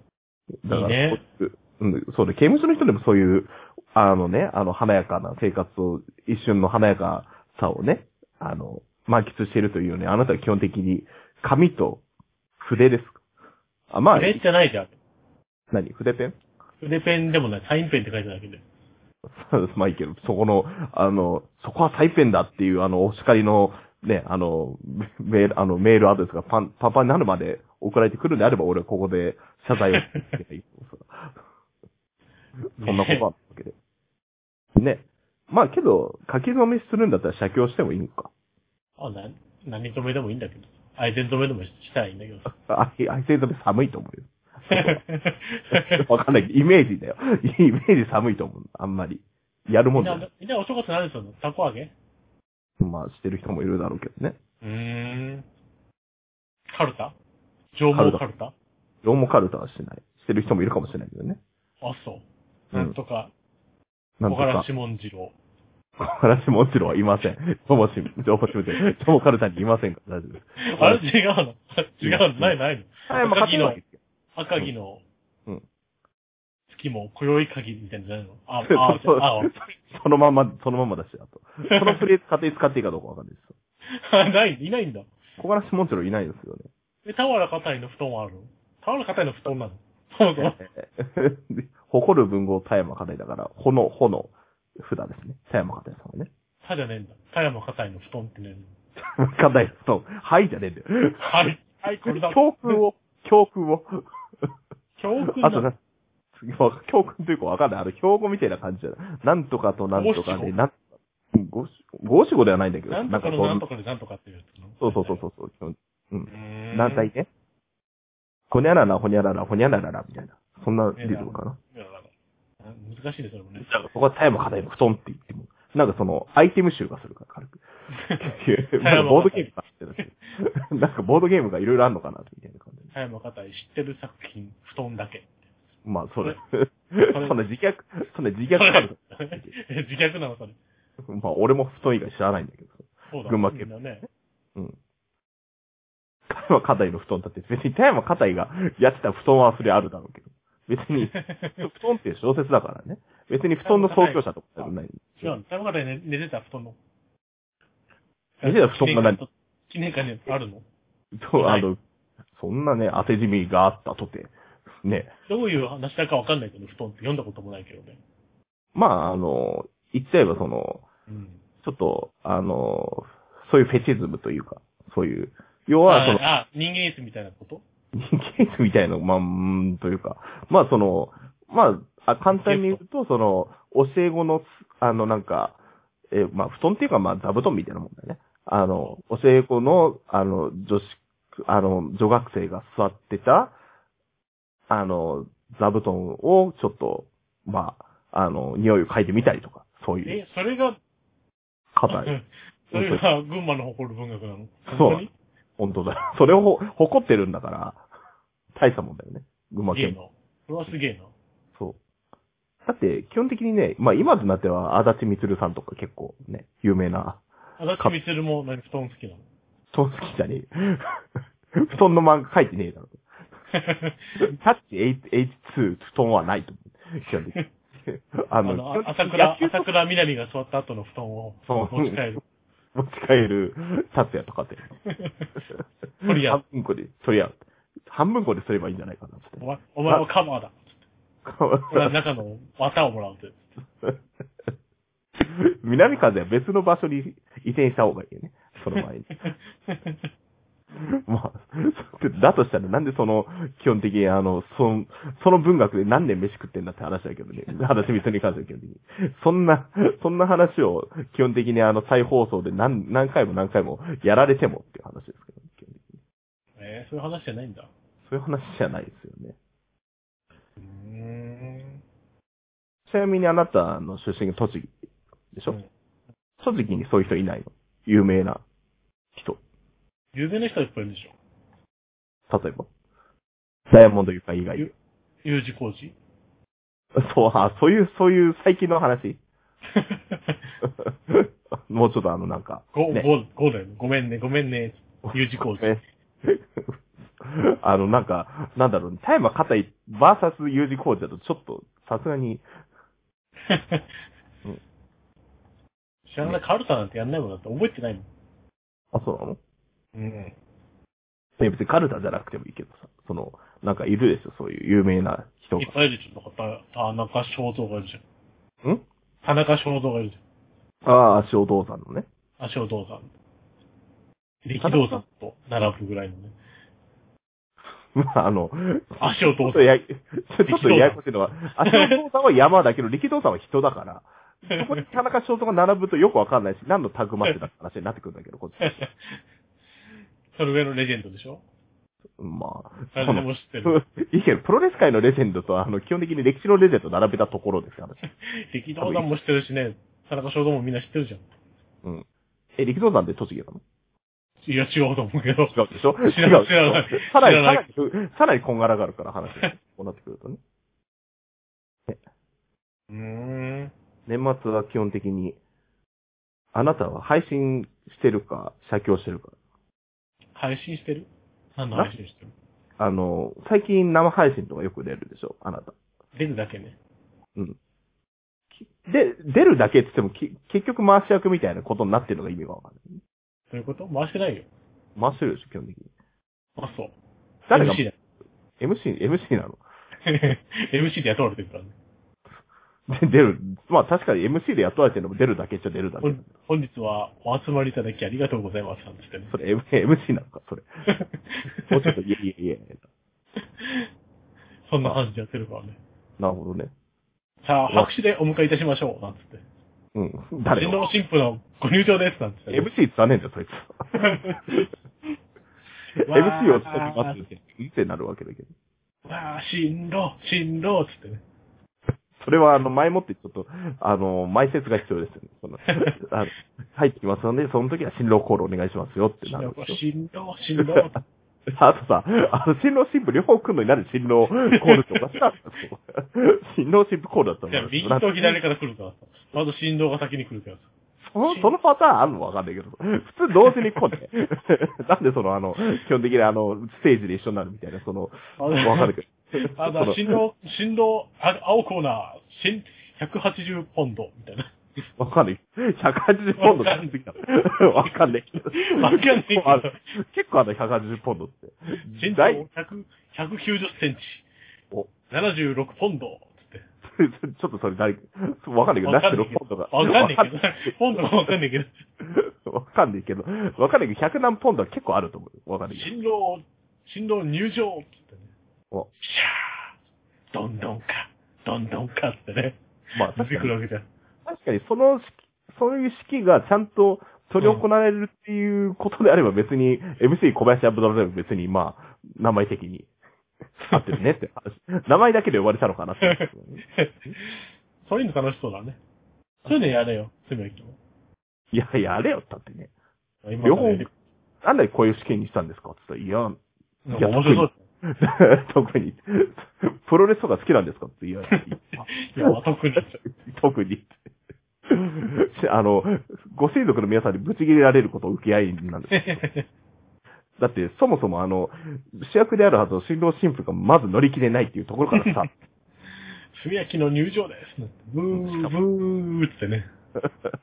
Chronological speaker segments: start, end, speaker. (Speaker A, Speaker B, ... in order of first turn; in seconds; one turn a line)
Speaker A: 0.6-12.0
Speaker B: 0.7-1.2
Speaker A: 12.6-13.2
Speaker A: 13.9-14.4
Speaker B: 14.1-14.9
Speaker A: 15.7-16.4
Speaker B: 16.8-18.6
Speaker A: 19.3-31.3
Speaker A: 32.8-33.8
Speaker B: 32.8-33.3
Speaker A: 34.8-38.3
Speaker B: 39.0-42.5
Speaker A: 42.5-45.0
Speaker B: 44.7-46.0
Speaker A: 45.7-50.3
Speaker B: 50.0-51.9
Speaker A: 52.8-54.4
Speaker B: 54.6-55.5
Speaker B: 56.7-57.1
Speaker B: 57.7-58.5
Speaker A: 57.9-58.2
Speaker A: 59.0-61.4
Speaker B: 61.8-63.3
Speaker A: 64.2-64.7
Speaker B: 64.3-65.3
Speaker A: 66.0-71.0
Speaker B: 70.7-73.8
Speaker A: 72.0-72.5
Speaker A: 73.1-74.0
Speaker B: 74.3-75.0
Speaker B: 76.7-79.5
Speaker A: 78.7-83.5
Speaker B: 81.7-82.0
Speaker B: 83.9-85.1
Speaker A: 85.4-86.7
Speaker B: 87.0-90.6
Speaker A: 90.4-96.3
Speaker B: 96.6-98.7
Speaker A: 99.0-101.2
Speaker B: 101.2-102.8
Speaker A: 102.1-104.5
Speaker B: 105.0-105.7
Speaker A: 105.3-105.8
Speaker A: 106.4-110.8
Speaker B: 109.9-110.5
Speaker A: 111.3-113.7
Speaker B: 112.9-115.3
Speaker A: 114.8-117.3
Speaker B: 116.3-117.1
Speaker A: 118.5-121.6
Speaker B: 121.0-122.1
Speaker B: 122.6-123.7
Speaker A: 123.6-127.6
Speaker B: 127.9-129.5
Speaker A: 128.2-132.9
Speaker B: 132.9-135.3
Speaker A: 135.8-139.5
Speaker B: 137.1-137.4
Speaker B: 138.5-140.6
Speaker A: 141.1-143.7
Speaker B: 143.1-144.1
Speaker A: 146.3-155.4
Speaker B: 151.1-151.7
Speaker B: 153.6-156.8
Speaker B: 158.4-160.7
Speaker A: 158.4-159.2
Speaker A: 161.2-161.8
Speaker B: 161.4-161.7
Speaker A: 162.4-165.1
Speaker B: 165.3-168.0
Speaker A: 168.8-170.8
Speaker B: 171.1-171.4
Speaker A: 171.6-176.2
Speaker B: 175.8-177.6
Speaker A: 177.9-185.6
Speaker B: 182.3-182.8
Speaker A: 186.1-193.5
Speaker A: 194.7-200.2
Speaker B: 200.1-200.8
Speaker A: 201.7-202.2
Speaker B: 201.9-205.1
Speaker A: 202.7-203.0
Speaker A: 204.7-205.0
Speaker A: 205.6-207.8
Speaker A: 208.5-210.0
Speaker B: 209.7-211.1
Speaker A: 212.7-217.2
Speaker B: 217.6-219.2
Speaker A: 219.7-221.0
Speaker A: 221.5-223.0
Speaker B: 223.5-224.2
Speaker A: 224.2-227.4
Speaker A: 227.9-229.7
Speaker B: 228.4-232.2
Speaker A: 231.5-232.2
Speaker A: 232.8-234.8
Speaker B: 234.9-235.3
Speaker A: 235.5-240.1
Speaker B: 236.0-236.4
Speaker B: 239.4-240.7
Speaker A: 241.2-241.9
Speaker B: 241.7-243.5
Speaker A: 245.2-249.1
Speaker B: 248.8-250.1
Speaker A: 250.8-266.0
Speaker B: 266.6-267.7
Speaker A: 268.0-269.4
Speaker B: 270.6-271.8
Speaker A: 272.9-274.7
Speaker A: 275.3-275.6
Speaker A: 276.4-278.4
Speaker B: 280.1-281.1
Speaker A: 282.3-282.7
Speaker A: 283.7-284.7
Speaker B: 285.2-285.9
Speaker A: 287.0-289.2
Speaker B: 289.7-290.5
Speaker A: 290.6-293.1
Speaker B: 292.7-295.8
Speaker A: 295.1-302.4
Speaker B: 303.5-303.9
Speaker B: 306.1-308.1
Speaker A: 308.9-309.4
Speaker B: 309.9-310.3
Speaker A: 311.4-315.8
Speaker B: 315.6-318.0
Speaker B: 319.2-320.2
Speaker A: 320.8-322.1
Speaker B: 322.4-323.1
Speaker B: 324.4-326.3
Speaker A: 324.6-325.0
Speaker A: 327.9-338.8
Speaker B: 329.0-329.7
Speaker B: 330.5-331.0
Speaker B: 331.7-332.0
Speaker B: 334.5-334.8
Speaker B: 338.6-339.2
Speaker B: 340.3-341.4
Speaker A: 342.2-348.0
Speaker B: 342.9-343.8
Speaker B: 348.2-351.2
Speaker A: 348.8-349.1
Speaker A: 352.6-353.6
Speaker B: 354.4-357.8
Speaker A: 355.5-360.4
Speaker B: 362.9-363.7
Speaker A: 364.1-365.4
Speaker A: 366.5-369.3
Speaker B: 370.4-372.3
Speaker A: 372.8-375.8
Speaker B: 376.1-376.8
Speaker A: 378.6-383.0
Speaker B: 383.5-384.5
Speaker A: 385.0-385.9
Speaker B: 386.6-386.9
Speaker B: 387.5-387.9
Speaker A: 387.5-387.8
Speaker A: 388.6-389.6
Speaker B: 390.1-391.7
Speaker A: 392.9-396.3
Speaker B: 396.0-399.3
Speaker A: 399.3-400.7
Speaker B: 400.9-401.9
Speaker A: 401.7-402.8
Speaker B: 403.4-403.9
Speaker B: 404.7-405.8
Speaker A: 406.2-406.7
Speaker B: 407.4-409.4
Speaker A: 409.9-410.9
Speaker B: 410.6-412.7
Speaker A: 412.5-413.8
Speaker B: 413.9-414.7
Speaker B: 416.1-417.2
Speaker A: 416.1-418.5
Speaker B: 419.1-421.2
Speaker A: 422.2-429.8
Speaker B: 425.7-425.9
Speaker B: 429.3-431.0
Speaker A: 431.6-438.4
Speaker B: 434.7-435.1
Speaker B: 437.5-440.7
Speaker A: 441.0-450.2
Speaker B: 441.2-441.5
Speaker B: 443.4-443.8
Speaker B: 448.4-448.9
Speaker B: 449.5-454.5
Speaker A: 455.0-462.4
Speaker B: 456.4-456.9
Speaker B: 458.6-459.8
Speaker B: 461.9-464.2
Speaker B: 465.1-466.6
Speaker A: 466.9-471.2
Speaker B: 468.8-471.7
Speaker A: 472.0-475.9
Speaker B: 475.7-478.3
Speaker B: 479.0-479.7
Speaker B: 480.3-482.6
Speaker A: 482.9-483.5
Speaker B: 483.1-483.9
Speaker A: 484.3-492.9
Speaker A: 493.6-497.2
Speaker B: 493.7-494.0
Speaker B: 496.1-498.8
Speaker B: 499.5-500.8
Speaker A: 501.5-502.7
Speaker B: 503.2-503.9
Speaker A: 503.4-503.9
Speaker A: 504.4-506.4
Speaker B: 506.9-507.6
Speaker A: 506.9-513.9
Speaker B: 511.3-513.0
Speaker A: 514.7-519.2
Speaker B: 518.9-519.5
Speaker A: 520.4-525.3
Speaker B: 526.3-529.7
Speaker A: 528.1-528.5
Speaker A: 530.0-530.3